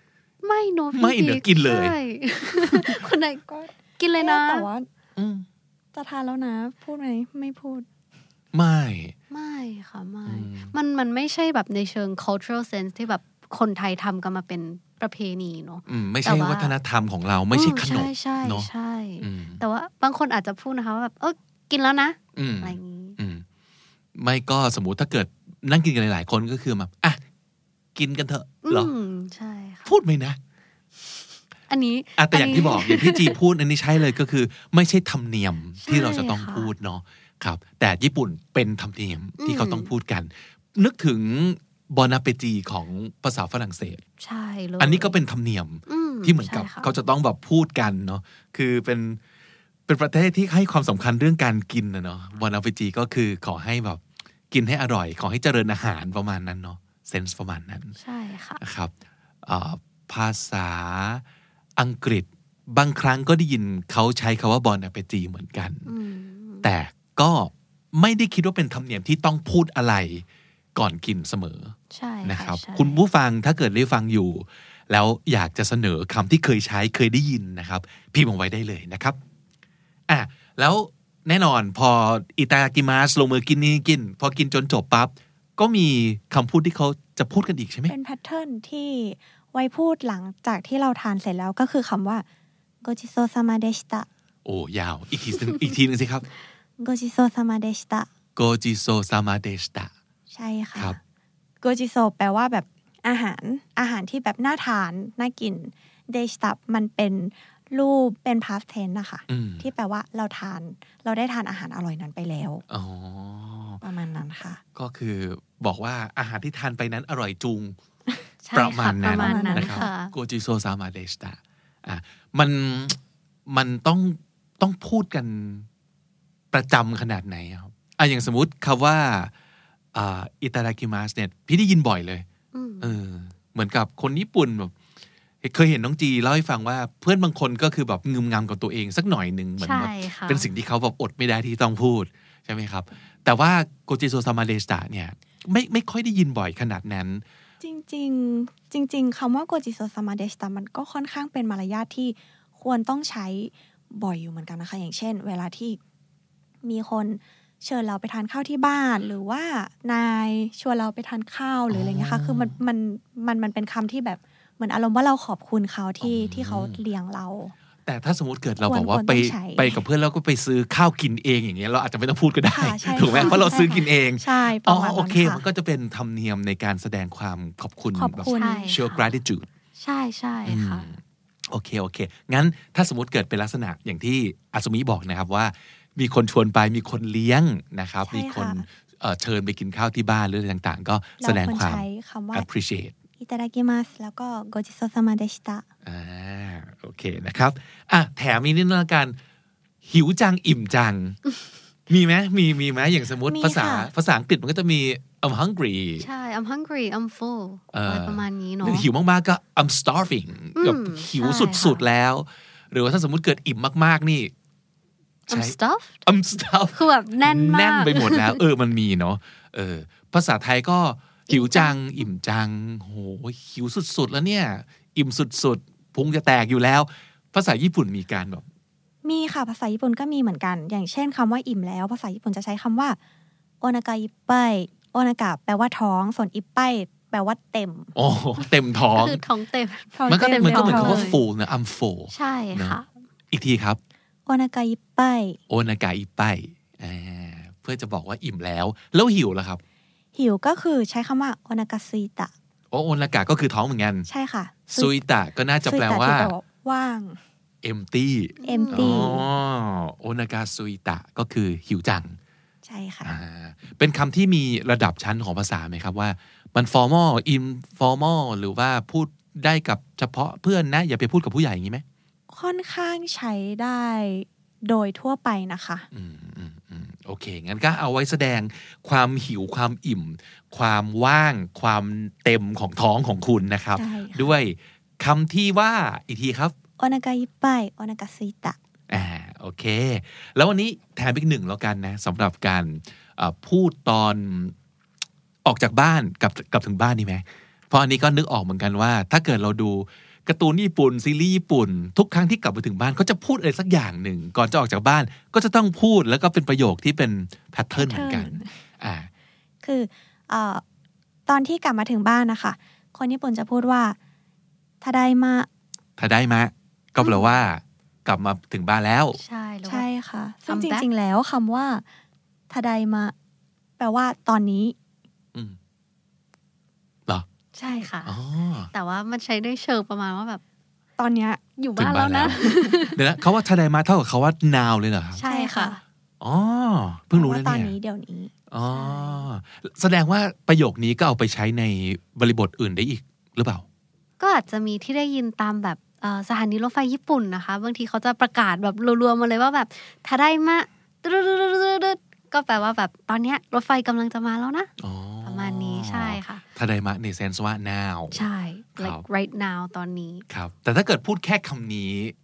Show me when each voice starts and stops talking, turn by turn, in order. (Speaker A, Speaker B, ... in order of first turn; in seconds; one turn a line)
Speaker A: 0.4-3.4
Speaker B: 0.9-1.9
Speaker C: 2.7-4.9
Speaker A: 4.0-4.7
Speaker B: 5.2-5.5
Speaker C: 5.9-7.9
Speaker B: 8.5-9.1
Speaker A: 9.3-16.7
Speaker B: 10.2-10.7
Speaker B: 15.9-18.7
Speaker A: 17.5-23.2
Speaker B: 19.2-19.6
Speaker B: 22.4-23.4
Speaker B: 24.1-27.2
Speaker B: 27.9-28.9
Speaker A: 28.7-29.9
Speaker B: 29.9-30.4
Speaker A: 31.7-33.4
Speaker B: 32.2-44.0
Speaker A: 35.8-36.7
Speaker A: 39.4-39.9
Speaker A: 44.2-45.1
Speaker B: 44.8-49.2
Speaker A: 45.9-46.9
Speaker B: 49.9-57.9
Speaker A: 58.0-58.6
Speaker B: 58.6-58.9
Speaker B: 59.4-61.2
Speaker B: 61.8-65.9
Speaker A: 65.8-66.7
Speaker B: 66.6-79.2
Speaker A: 71.9-73.0
Speaker B: 80.1-87.9
Speaker C: 87.9-92.2
Speaker C: 92.8-94.1
Speaker B: 94.4-96.2
Speaker C: 96.8-98.1
Speaker B: 98.3-99.9
Speaker C: 100.3-101.0
Speaker C: 101.6-112.6
Speaker B: 109.3-109.7
Speaker B: 112.7-113.8
Speaker C: 113.8-114.6
Speaker B: 114.7-117.8
Speaker A: 118.4-120.1
Speaker B: 118.5-125.7
Speaker C: 119.1-119.9
Speaker B: 126.5-129.3
Speaker B: 129.9-132.2
Speaker A: 132.5-132.9
Speaker B: 132.8-134.7
Speaker B: 135.4-147.2
Speaker A: 139.6-140.5
Speaker C: 147.6-155.8
Speaker C: 156.6-167.5
Speaker B: 161.7-162.6
Speaker B: 166.0-166.8
Speaker B: 167.8-179.5
Speaker C: 168.6-169.8
Speaker C: 172.5-175.4
Speaker A: 173.1-173.6
Speaker C: 177.9-178.8
Speaker A: 178.2-179.1
Speaker A: 179.8-180.8
Speaker B: 180.4-192.9
Speaker C: 188.1-188.7
Speaker C: 191.2-192.5
Speaker C: 193.2-195.6
Speaker B: 195.8-199.2
Speaker B: 199.8-201.2
Speaker B: 201.9-206.1
Speaker C: 203.2-203.9
Speaker A: 206.0-208.9
Speaker B: 207.7-214.3
Speaker A: 210.6-211.8
Speaker A: 215.3-216.0
Speaker B: 215.3-228.4
Speaker A: 216.7-218.4
Speaker A: 221.3-221.8
Speaker C: 229.0-233.0
Speaker C: 233.6-237.9
Speaker B: 237.9-239.2
Speaker A: 238.9-241.2
Speaker C: 239.9-241.2
Speaker B: 240.1-242.8
Speaker A: 242.1-242.9
Speaker B: 243.3-243.8
Speaker C: 244.3-245.4
Speaker B: 245.5-249.6
Speaker C: 250.1-252.3
Speaker B: 252.7-254.1
Speaker C: 254.1-254.9
Speaker B: 254.7-256.3
Speaker C: 255.6-257.2
Speaker B: 257.6-262.2
Speaker A: 258.4-259.1
Speaker C: 258.4-259.2
Speaker C: 262.6-263.2
Speaker B: 263.0-271.8
Speaker C: 272.3-275.9
Speaker B: 275.9-286.5
Speaker C: 283.7-284.3
Speaker C: 286.8-288.6
Speaker B: 288.9-294.5
Speaker B: 295.4-309.1
Speaker C: 307.7-308.5
Speaker C: 309.6-310.6
Speaker C: 311.3-314.0
Speaker C: 314.8-315.5
Speaker B: 316.0-319.2
Speaker A: 319.2-319.9
Speaker C: 319.6-321.8
Speaker A: 320.5-320.9
Speaker C: 322.5-323.1
Speaker C: 323.8-324.8
Speaker A: 327.5-328.1
Speaker C: 327.6-327.9
Speaker B: 328.0-328.7
Speaker A: 328.7-330.4
Speaker C: 331.0-331.4
Speaker A: 331.6-333.0
Speaker B: 331.8-332.4
Speaker C: 332.4-332.9
Speaker B: 332.9-335.2
Speaker A: 335.1-335.8
Speaker C: 335.2-335.8
Speaker B: 336.2-337.7
Speaker C: 337.1-339.0
Speaker B: 338.5-343.6
Speaker A: 344.2-354.7
Speaker B: 354.8-358.2
Speaker A: 355.2-356.4
Speaker A: 358.1-360.2
Speaker B: 358.8-359.0
Speaker B: 360.3-362.1